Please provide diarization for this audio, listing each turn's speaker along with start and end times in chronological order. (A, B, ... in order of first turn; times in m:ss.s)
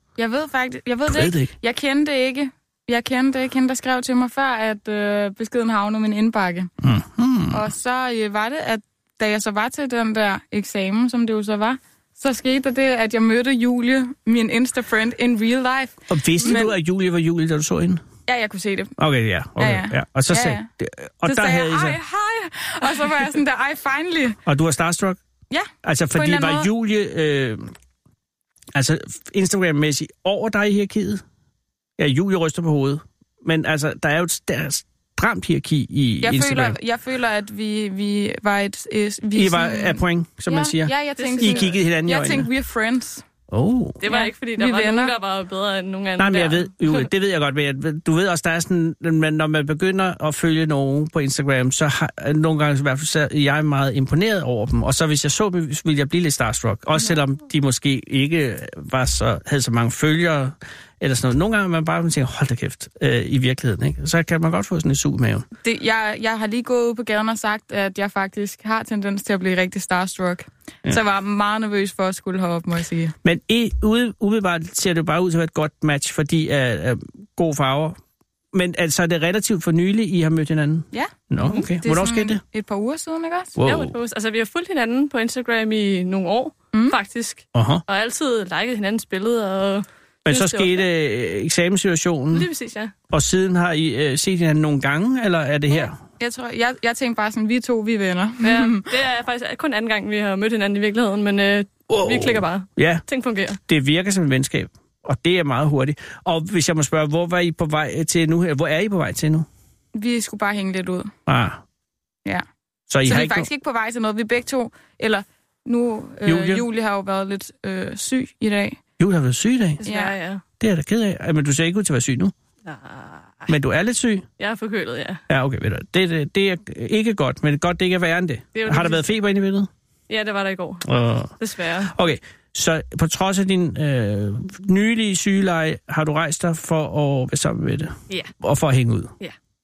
0:00.2-0:06.7 A
0:01.1-0:01.5 B
0:06.8-0:07.6 B
0:07.5-0:16.7 A
0:16.1-0:18.0 B
0:18.3-0:18.9 A
0:19.0-0:22.0 B
0:19.6-0:20.7 A
0:21.2-0:24.4 A
0:24.4-0:25.2 B
0:25.5-0:26.7 A
0:25.8-0:27.7 B
0:28.7-0:31.2 B
0:32.0-0:36.8 B
0:36.2-0:43.2 A
0:39.3-0:42.5 B
0:41.2-0:41.7 C
0:43.5-0:44.0 B
0:44.0-0:47.1 C
0:44.0-0:45.1 A
0:46.2-1:05.4 B
1:05.6-1:13.1 A
1:13.2-1:18.0 B
1:18.5-1:22.4 B
1:20.9-1:23.6 A
1:23.6-1:24.0 B
1:23.6-1:30.8 C
1:26.7-1:27.0 A
1:27.5-1:27.8 B
1:30.2-1:32.5 B
1:32.3-1:32.9 C
1:33.1-1:36.0 B
1:35.7-1:38.9 A
1:38.4-1:43.6 C
1:41.9-1:43.0 B
1:43.7-1:49.5 B
1:49.9-1:51.1 A
1:51.3-1:51.6 B
1:52.9-1:53.5 B
1:53.0-1:58.8 A
1:56.2-1:56.6 B
1:59.0-1:59.8 B
1:59.8-2:00.2 A
1:59.8-2:00.4 C
2:00.6-2:02.3 B
2:02.6-2:03.5 C
2:03.5-2:04.2 B
2:04.4-2:05.2 C
2:05.3-2:09.7 B
2:08.5-2:09.1 C
2:10.1-2:10.9 C
2:10.8-2:11.3 B
2:11.4-2:11.9 C
2:11.9-2:19.1 B